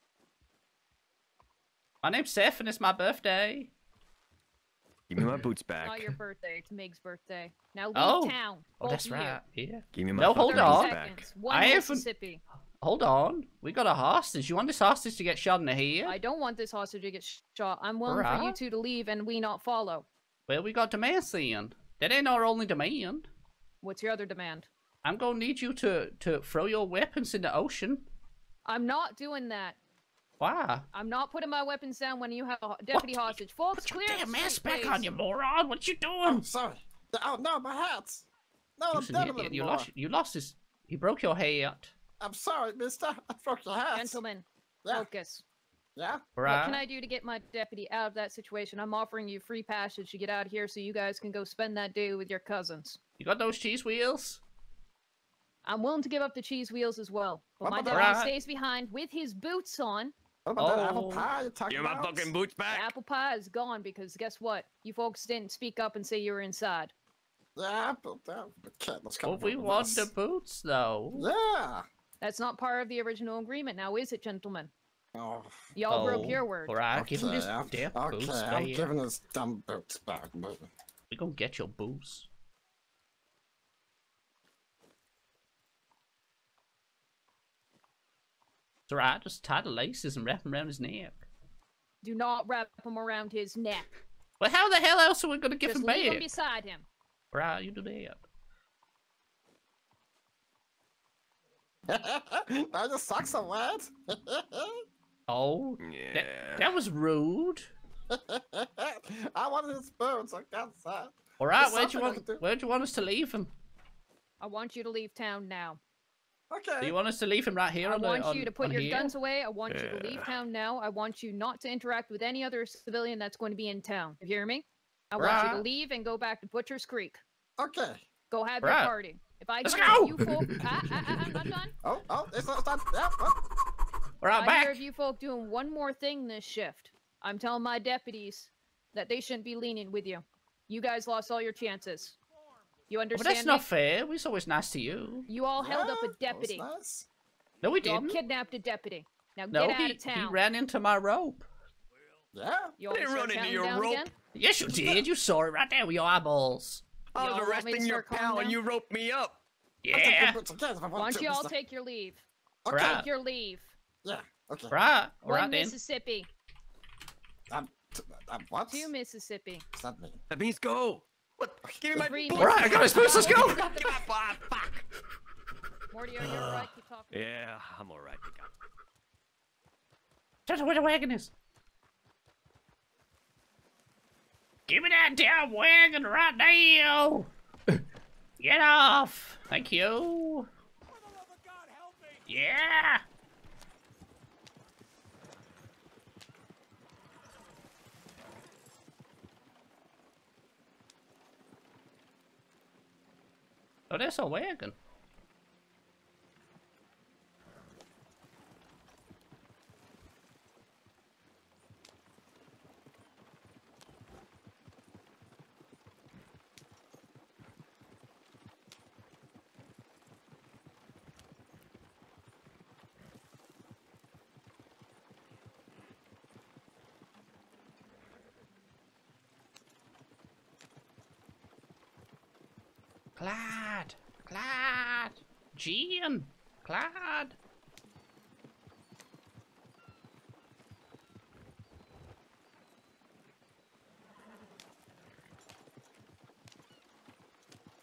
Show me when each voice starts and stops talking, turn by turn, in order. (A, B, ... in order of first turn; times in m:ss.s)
0:02.0-0:03.7 A
0:05.1-0:06.1 B
0:05.8-0:09.4 C
0:07.9-0:12.0 A
0:09.9-0:11.3 B
0:10.4-0:12.4 C
0:12.8-0:16.2 A
0:16.0-0:20.1 C
0:18.0-0:18.6 A
0:20.5-0:23.3 A
0:23.8-0:24.7 C
0:25.0-0:28.0 A
0:28.6-0:29.8 C
0:30.4-0:30.8 A
0:30.9-0:35.1 C
0:32.9-0:36.4 A
0:36.2-0:38.2 D
0:38.8-0:39.9 D
0:38.9-0:41.9 A
0:42.2-0:44.2 D
0:43.9-0:45.4 C
0:46.0-0:46.2 D
0:46.4-0:46.8 A
0:46.4-0:53.0 C
0:53.2-0:54.4 A
0:55.6-1:00.1 C
0:57.6-0:58.2 D
0:57.9-0:58.3 A
1:00.4-1:02.3 D
1:00.6-1:01.3 A
1:01.7-1:02.9 B
1:02.7-1:06.9 C
1:07.6-1:10.1 D
1:09.2-1:11.3 A
1:11.1-1:11.9 D
1:12.2-1:14.7 C
1:15.1-1:16.4 D
1:15.7-1:16.8 C
1:15.9-1:18.9 A
1:16.9-1:20.7 D
1:21.1-1:22.3 A
1:28.9-1:31.2 A
1:32.0-1:33.9 C
1:34.4-1:36.3 A
1:35.6-1:36.9 C
1:37.3-1:38.2 A
1:41.9-1:44.8 D
1:45.3-1:47.7 A
1:45.8-1:46.7 B
1:48.1-1:52.4 D
1:51.4-1:53.5 A
1:54.4-1:55.8 C
1:56.5-1:57.0 D
1:56.8-1:59.1 A
1:57.8-2:07.2 C
1:59.7-2:00.3 B
2:05.2-2:05.6 A
2:07.6-2:08.0 D
2:08.3-2:11.7 C
2:08.6-2:08.9 A
2:09.6-2:10.7 A
2:11.8-2:13.4 D
2:14.2-2:14.8 A
2:14.3-2:22.2 C
2:22.9-2:23.7 C
2:23.2-2:25.3 A
2:25.3-2:26.7 C
2:25.6-2:27.1 D
2:27.6-2:28.2 A
2:27.8-2:30.4 C
2:29.5-2:31.5 A
2:32.3-2:32.8 D
2:32.8-2:34.1 C
2:32.9-2:34.1 B
2:34.3-2:36.8 A
2:37.1-2:39.4 B
2:37.2-2:38.6 C
2:39.8-2:40.4 A
2:39.9-2:41.5 D
2:40.9-2:42.2 C
2:42.6-2:43.0 D
2:42.7-2:43.0 A
2:42.8-2:43.7 C
2:44.0-2:44.8 D
2:44.7-2:45.8 A
2:45.2-2:46.3 C
2:47.5-2:48.9 D
2:48.7-2:49.6 C
2:49.7-2:50.2 D
2:50.3-2:54.8 B
2:51.6-2:52.0 D
2:51.9-2:54.1 C
2:52.4-2:53.7 A
2:55.9-2:57.4 C
2:56.2-2:58.5 B
3:00.5-3:01.3 A
3:04.7-3:07.8 A
3:08.4-3:10.5 A
3:12.2-3:13.0 A
3:23.9-3:24.8 A
3:53.2-3:57.4 A